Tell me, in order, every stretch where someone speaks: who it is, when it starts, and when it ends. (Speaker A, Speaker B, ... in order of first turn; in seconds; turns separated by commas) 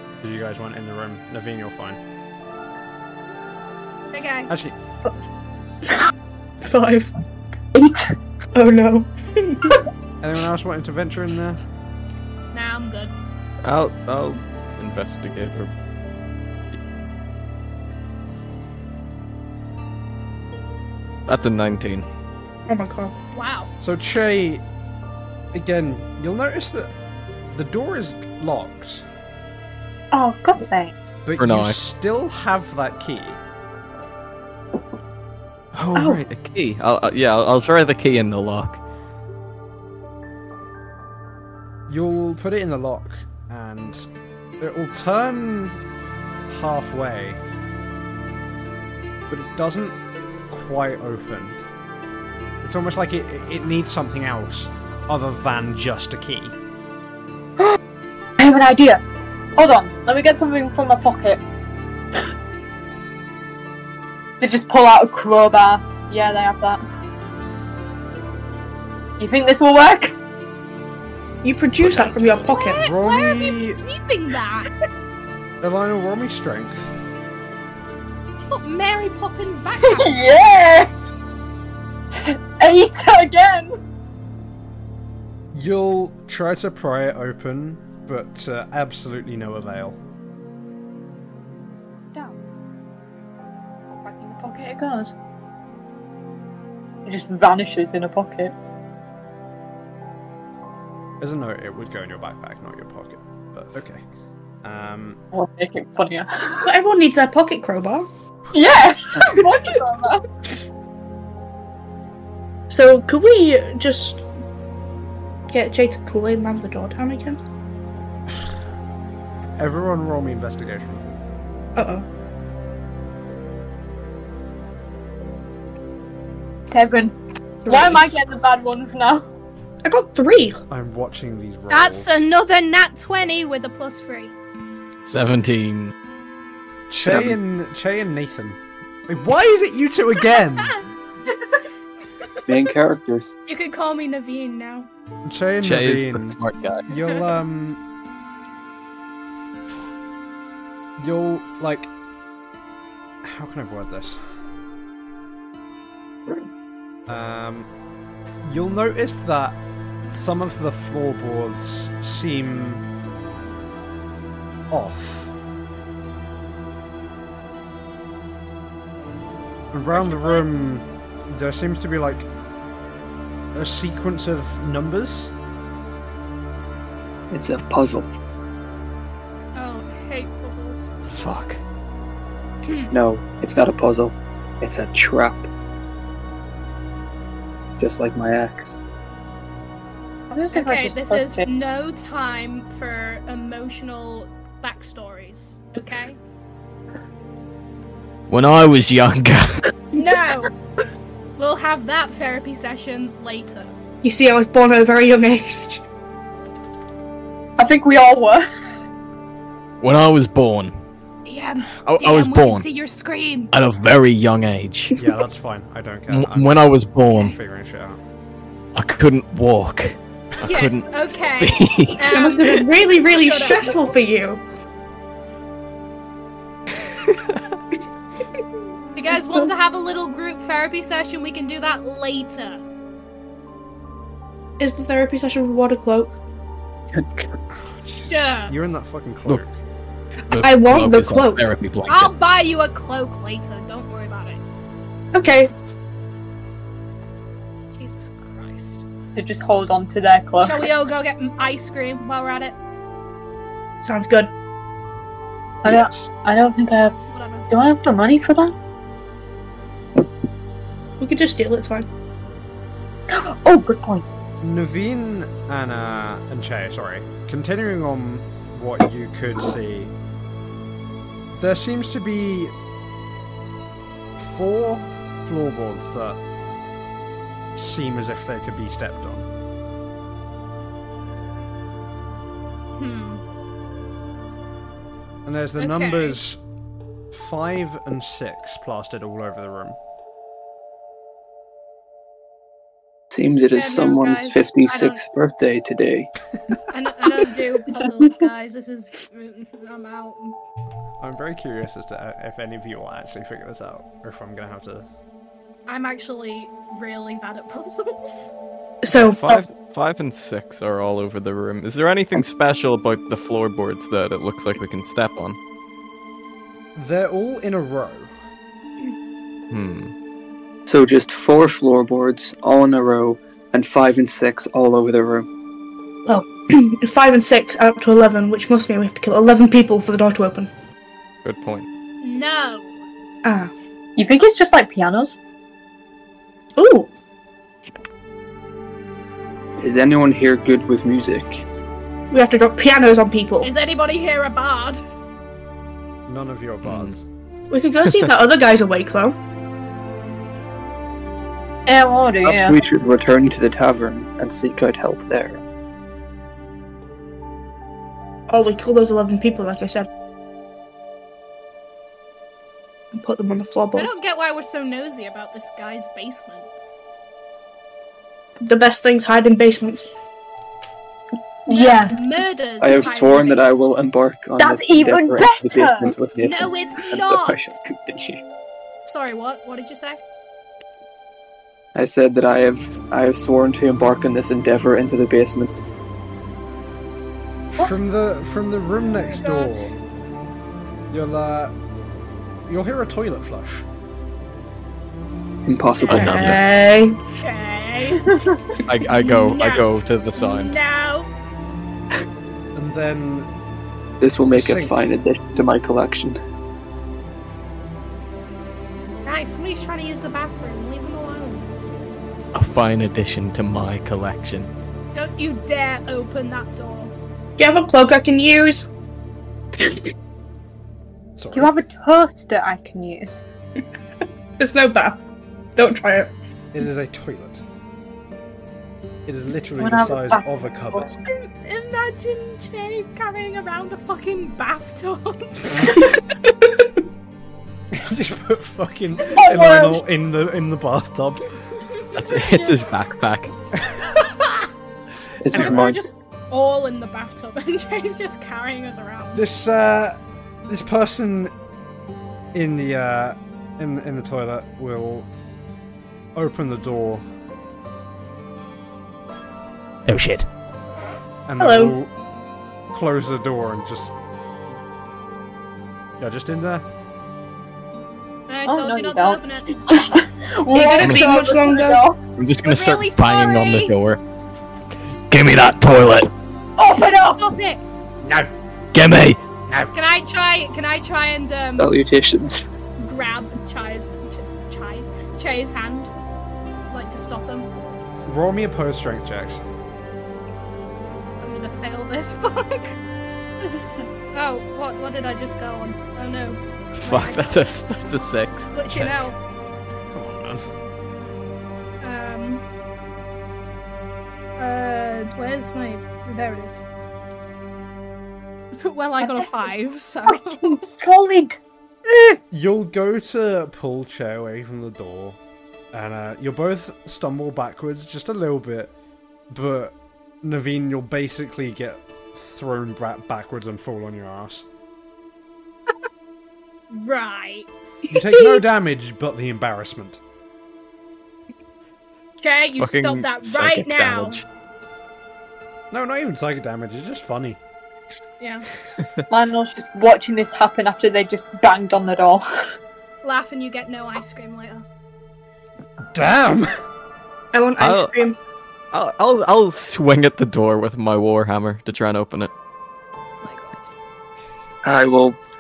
Speaker A: 0.2-2.0, Speaker B: 4.1-4.5, Speaker A: 4.5-4.8, Speaker C: 6.6-7.1, Speaker D: 7.7-8.1, Speaker C: 8.5-9.9, Speaker A: 10.2-11.6, Speaker B: 12.5-13.1, Speaker E: 13.6-15.7, Speaker E: 21.3-22.1, Speaker C: 22.7-23.1, Speaker B: 23.3-23.7, Speaker A: 23.8-24.6, Speaker A: 25.5-26.9, Speaker A: 27.5-29.1, Speaker D: 30.1-30.9, Speaker A: 31.2-33.4, Speaker E: 31.4-31.8, Speaker E: 35.7-38.8, Speaker A: 41.9-44.1, Speaker A: 44.6-45.8, Speaker A: 46.5-47.4, Speaker A: 49.3-50.0, Speaker A: 50.5-51.6, Speaker A: 52.6-56.6, Speaker D: 58.4-59.0, Speaker D: 59.6-61.4, Speaker D: 64.4-66.8, Speaker D: 69.2-70.2, Speaker C: 71.4-72.8, Speaker B: 72.5-74.7, Speaker A: 72.7-73.8, Speaker A: 75.6-76.9, Speaker B: 78.5-80.2, Speaker D: 79.8-80.9, Speaker D: 82.2-83.8, Speaker A: 85.5-90.0, Speaker D: 93.9-95.2, Speaker D: 97.1-98.5, Speaker A: 101.2-104.0, Speaker A: 104.6-105.2, Speaker D: 105.3-106.7, Speaker C: 106.6-108.1, Speaker D: 108.5-110.5, Speaker C: 112.7-114.2, Speaker C: 115.5-117.4, Speaker A: 119.6-121.0, Speaker C: 121.8-122.0, Speaker D: 126.7-127.2, Speaker C: 127.7-128.1, Speaker D: 127.7-129.3, Speaker C: 129.8-130.6, Speaker A: 130.7-132.3, Speaker B: 131.7-134.3, Speaker E: 135.1-135.9, Speaker A: 136.9-140.8, Speaker E: 137.0-137.4, Speaker F: 142.5-143.3, Speaker B: 143.5-144.9, Speaker A: 145.3-147.8, Speaker E: 145.6-146.9, Speaker A: 151.0-151.9, Speaker A: 153.2-154.2, Speaker A: 157.1-157.7, Speaker A: 158.4-159.6, Speaker A: 160.1-162.8, Speaker A: 164.7-165.3, Speaker A: 169.7-172.3, Speaker B: 169.9-170.5, Speaker A: 173.6-175.3, Speaker F: 177.3-178.1, Speaker B: 179.6-180.9, Speaker E: 181.1-181.6, Speaker B: 182.6-182.9, Speaker F: 182.9-185.5, Speaker F: 187.8-188.8, Speaker D: 190.3-191.5, Speaker B: 190.5-196.2, Speaker E: 198.3-199.7, Speaker B: 199.9-200.5, Speaker B: 201.4-203.7, Speaker C: 204.0-205.8, Speaker D: 207.6-208.5, Speaker E: 209.8-210.8, Speaker B: 211.3-213.5, Speaker E: 211.8-212.7, Speaker E: 213.5-215.0, Speaker A: 215.0-218.0, Speaker E: 216.1-217.4, Speaker E: 218.8-222.6, Speaker B: 220.4-223.9, Speaker C: 222.1-224.4, Speaker B: 228.9-232.6, Speaker C: 234.6-236.2, Speaker F: 236.9-237.3, Speaker A: 237.6-239.6, Speaker B: 238.1-238.5, Speaker E: 240.3-242.1, Speaker C: 240.4-241.5, Speaker B: 241.9-244.4, Speaker C: 245.1-245.5, Speaker B: 247.7-248.8, Speaker D: 249.2-250.7, Speaker B: 250.4-252.6, Speaker C: 253.8-254.3, Speaker D: 255.6-257.0, Speaker B: 257.1-257.5, Speaker D: 257.5-258.6, Speaker C: 261.0-261.9, Speaker D: 263.1-264.1, Speaker A: 264.4-269.9, Speaker A: 271.3-272.5, Speaker A: 274.2-276.2, Speaker A: 277.6-279.3, Speaker B: 282.8-283.2, Speaker A: 285.3-286.4, Speaker B: 285.6-286.2, Speaker A: 287.1-289.8, Speaker F: 293.1-296.1, Speaker B: 293.5-295.0, Speaker B: 296.7-300.4, Speaker A: 301.0-304.9, Speaker B: 305.7-308.3, Speaker C: 308.8-309.4, Speaker E: 308.9-315.4, Speaker A: 316.8-318.1, Speaker E: 319.5-319.9, Speaker F: 320.7-325.3, Speaker C: 326.1-330.5, Speaker E: 331.2-331.7, Speaker B: 332.0-332.7, Speaker C: 333.2-333.5, Speaker D: 334.0-335.2, Speaker C: 336.6-336.9, Speaker F: 339.6-341.4, Speaker C: 342.1-343.5, Speaker B: 343.4-344.8, Speaker A: 346.1-347.1, Speaker E: 346.6-346.9, Speaker C: 347.5-349.2, Speaker D: 351.7-352.6, Speaker F: 352.2-355.4, Speaker C: 358.3-359.9, Speaker C: 362.9-363.9, Speaker B: 363.8-366.5, Speaker C: 368.4-369.9, Speaker D: 371.5-372.0, Speaker B: 371.5-373.4, Speaker F: 372.6-378.2, Speaker D: 374.4-376.0, Speaker B: 376.2-377.6, Speaker B: 378.9-380.0, Speaker F: 381.8-385.6, Speaker A: 387.5-389.7, Speaker B: 389.1-389.7, Speaker A: 390.9-391.6, Speaker A: 392.5-393.7, Speaker F: 395.5-396.4, Speaker E: 395.9-396.4, Speaker C: 395.9-397.0, Speaker B: 397.1-398.1, Speaker E: 398.6-400.6, Speaker B: 398.9-401.1, Speaker A: 402.6-403.3, Speaker F: 404.0-406.2, Speaker A: 404.3-404.9, Speaker B: 409.1-411.5, Speaker E: 412.3-414.5, Speaker B: 414.9-416.9, Speaker C: 417.4-418.7, Speaker A: 421.2-421.5, Speaker D: 421.3-423.2, Speaker C: 424.4-425.0, Speaker C: 425.6-426.1, Speaker A: 426.5-427.4, Speaker A: 429.1-430.9, Speaker D: 429.6-431.0, Speaker B: 431.1-435.9, Speaker A: 435.4-435.8, Speaker A: 437.7-441.3, Speaker D: 439.1-439.8, Speaker E: 441.9-443.3, Speaker A: 443.7-444.3, Speaker F: 445.2-445.9, Speaker C: 445.3-445.6, Speaker B: 445.3-449.2, Speaker A: 449.1-451.3, Speaker A: 452.3-455.1, Speaker A: 456.1-457.0, Speaker E: 459.9-460.2, Speaker A: 461.3-461.9, Speaker C: 461.4-461.8, Speaker A: 462.7-463.9, Speaker A: 466.0-466.7, Speaker B: 468.3-469.9, Speaker D: 468.5-472.0, Speaker C: 470.5-471.9, Speaker E: 470.8-471.0, Speaker E: 472.2-474.0, Speaker B: 472.4-473.7, Speaker E: 475.1-476.1, Speaker D: 476.6-477.2, Speaker B: 476.7-477.6, Speaker A: 478.0-478.3, Speaker E: 478.7-479.2, Speaker B: 479.7-481.7, Speaker F: 481.6-482.4, Speaker B: 482.8-485.9, Speaker B: 486.7-487.5, Speaker A: 488.0-489.4, Speaker B: 491.2-492.8, Speaker B: 494.1-497.4, Speaker E: 496.8-499.1, Speaker B: 498.5-499.1, Speaker A: 499.9-500.4, Speaker B: 501.8-502.4, Speaker B: 504.4-506.6, Speaker B: 508.6-510.7, Speaker D: 509.0-509.5, Speaker D: 510.1-511.4, Speaker A: 512.3-515.2, Speaker A: 515.7-518.7, Speaker A: 519.3-524.5, Speaker B: 526.7-528.3, Speaker A: 527.9-530.0, Speaker B: 532.2-534.2, Speaker E: 532.6-534.2, Speaker A: 535.7-537.4, Speaker B: 538.2-538.5, Speaker D: 539.1-542.3, Speaker B: 543.0-544.6, Speaker A: 545.9-546.5, Speaker C: 547.3-548.2, Speaker E: 547.6-547.9, Speaker E: 548.7-552.3, Speaker B: 553.2-553.7, Speaker F: 554.6-555.2